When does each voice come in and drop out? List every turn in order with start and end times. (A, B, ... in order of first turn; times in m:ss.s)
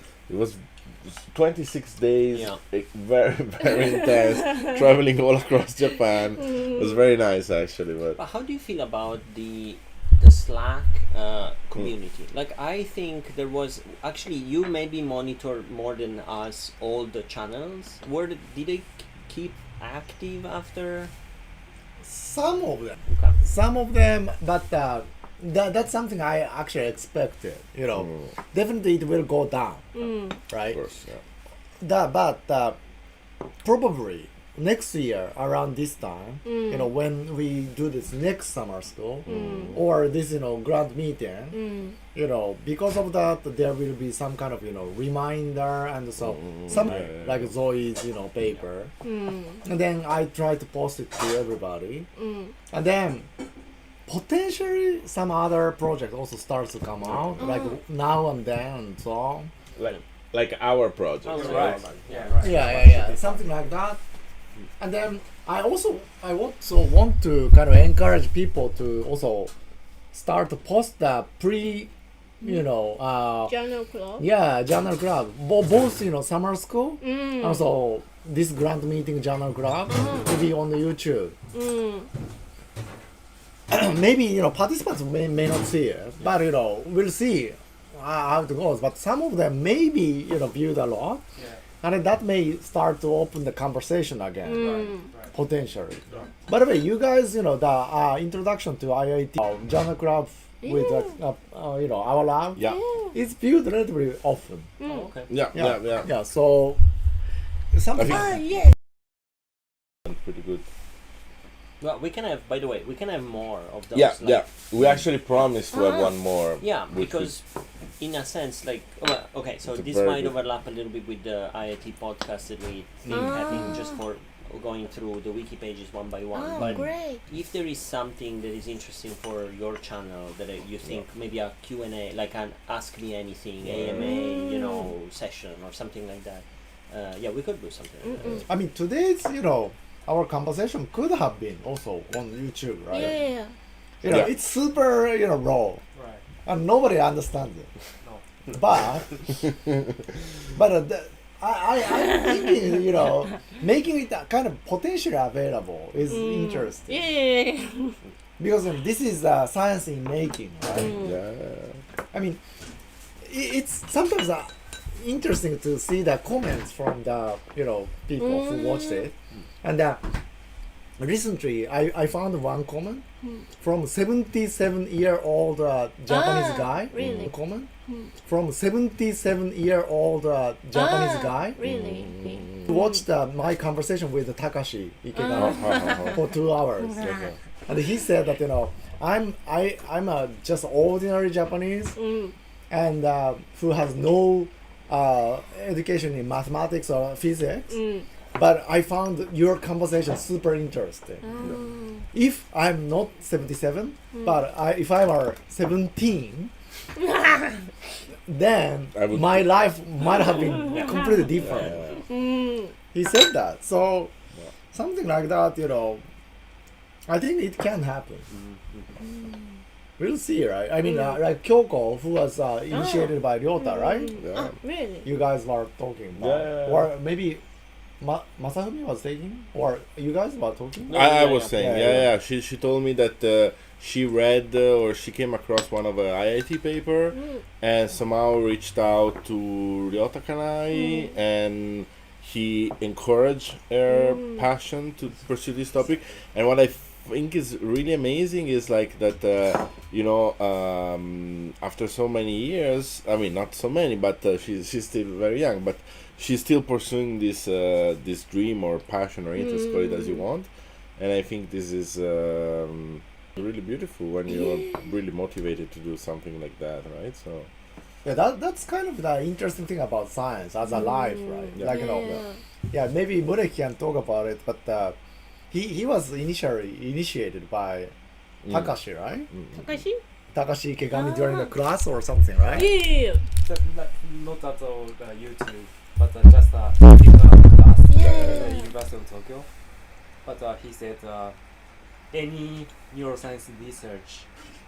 0:00.3-0:08.2 A
0:02.3-0:02.6 B
0:08.2-0:21.1 B
0:22.0-0:29.8 C
0:23.1-0:23.4 B
0:28.0-0:28.3 A
0:29.9-0:30.4 D
0:30.5-0:30.8 C
0:30.7-0:31.2 A
0:31.8-0:32.8 C
0:33.6-0:41.6 C
0:36.4-0:36.9 D
0:39.3-0:39.8 A
0:39.3-0:39.8 D
0:41.5-0:42.0 D
0:42.1-0:48.9 C
0:46.2-0:47.5 A
0:49.0-0:49.6 D
0:49.6-0:52.1 C
0:52.2-0:52.6 D
0:52.7-0:53.3 C
0:54.1-0:59.5 C
0:57.4-0:57.8 D
0:59.8-1:01.8 A
1:01.2-1:03.2 B
1:01.4-1:03.0 E
1:02.4-1:04.0 C
1:04.8-1:09.5 C
1:10.1-1:11.9 C
1:12.4-1:13.5 C
1:13.4-1:14.3 D
1:14.2-1:21.4 C
1:17.0-1:17.7 D
1:19.9-1:20.4 D
1:21.5-1:22.1 D
1:23.7-1:31.2 C
1:31.4-1:31.6 E
1:31.8-1:42.6 C
1:34.4-1:35.1 D
1:34.5-1:35.3 E
1:40.6-1:41.2 D
1:42.6-1:43.1 D
1:43.1-1:44.7 C
1:44.8-1:45.1 D
1:44.8-1:45.3 B
1:45.3-1:46.1 A
1:45.5-1:46.8 C
1:47.7-1:48.4 C
1:48.0-1:48.4 A
1:48.2-1:48.5 D
1:50.1-1:50.6 A
1:51.8-1:54.5 B
1:53.9-1:57.4 A
1:55.7-1:56.1 D
1:56.6-1:57.4 B
1:58.0-2:18.4 B
1:59.6-2:00.4 A
2:03.1-2:03.9 D
2:06.3-2:07.2 D
2:06.6-2:06.8 C
2:13.6-2:14.2 A
2:14.0-2:14.9 D
2:18.0-2:18.5 D
2:18.5-2:23.2 C
2:22.9-2:23.5 D
2:24.0-2:25.8 C
2:24.0-2:24.3 A
2:26.0-2:26.2 E
2:26.4-2:27.7 C
2:28.5-2:29.2 C
2:30.5-2:37.1 C
2:36.1-2:38.0 D
2:38.4-2:41.0 C
2:40.8-2:41.1 D
2:40.9-2:41.8 A
2:42.1-2:42.4 C
2:43.2-2:50.0 C
2:48.2-2:49.1 D
2:51.0-2:53.0 C
2:53.2-2:53.5 D
2:53.6-2:57.7 C
2:56.1-2:57.4 D
2:57.0-2:57.3 A
2:57.9-2:58.1 D
2:58.2-3:01.6 C
3:00.7-3:03.0 D
3:01.6-3:02.6 A
3:02.6-3:07.0 C
3:05.2-3:06.2 D
3:05.3-3:06.3 A
3:06.9-3:07.4 A
3:07.7-3:12.0 C
3:12.0-3:12.3 D
3:12.7-3:17.8 C
3:17.7-3:18.1 D
3:18.3-3:21.3 C
3:21.2-3:22.1 D
3:22.1-3:26.5 C
3:24.1-3:24.4 D
3:28.3-3:31.8 C
3:29.0-3:29.6 A
3:31.4-3:32.1 A
3:32.0-3:32.7 D
3:32.9-3:34.1 C
3:34.7-3:36.0 C
3:37.1-3:38.3 C
3:38.3-3:39.0 B
3:39.1-3:39.4 D
3:40.0-3:44.2 C
3:40.8-3:41.2 D
3:42.7-3:45.1 D
3:44.2-3:44.5 A
3:45.0-3:47.4 C
3:46.2-3:46.9 A
3:48.0-3:51.0 C
3:50.9-3:51.5 B
3:50.9-4:27.5 A
3:51.6-3:52.1 C
3:57.1-3:57.4 D
4:00.7-4:01.0 D
4:03.9-4:04.4 D
4:19.4-4:20.2 D
4:24.3-4:24.8 D
4:28.0-4:32.1 C
4:30.7-4:32.4 D
4:31.6-4:32.2 A
4:32.7-4:35.0 C
4:35.5-4:37.9 C
4:38.4-4:38.7 A
4:38.5-4:39.3 C
4:39.3-4:39.8 A
4:39.6-4:40.0 D
4:40.3-4:42.7 C
4:40.9-4:41.5 D
4:42.5-4:42.7 E
4:42.5-4:43.2 D
4:43.4-4:49.5 E
4:47.9-4:48.7 D
4:48.0-4:48.6 A
4:50.2-4:51.4 E
4:52.1-4:54.3 E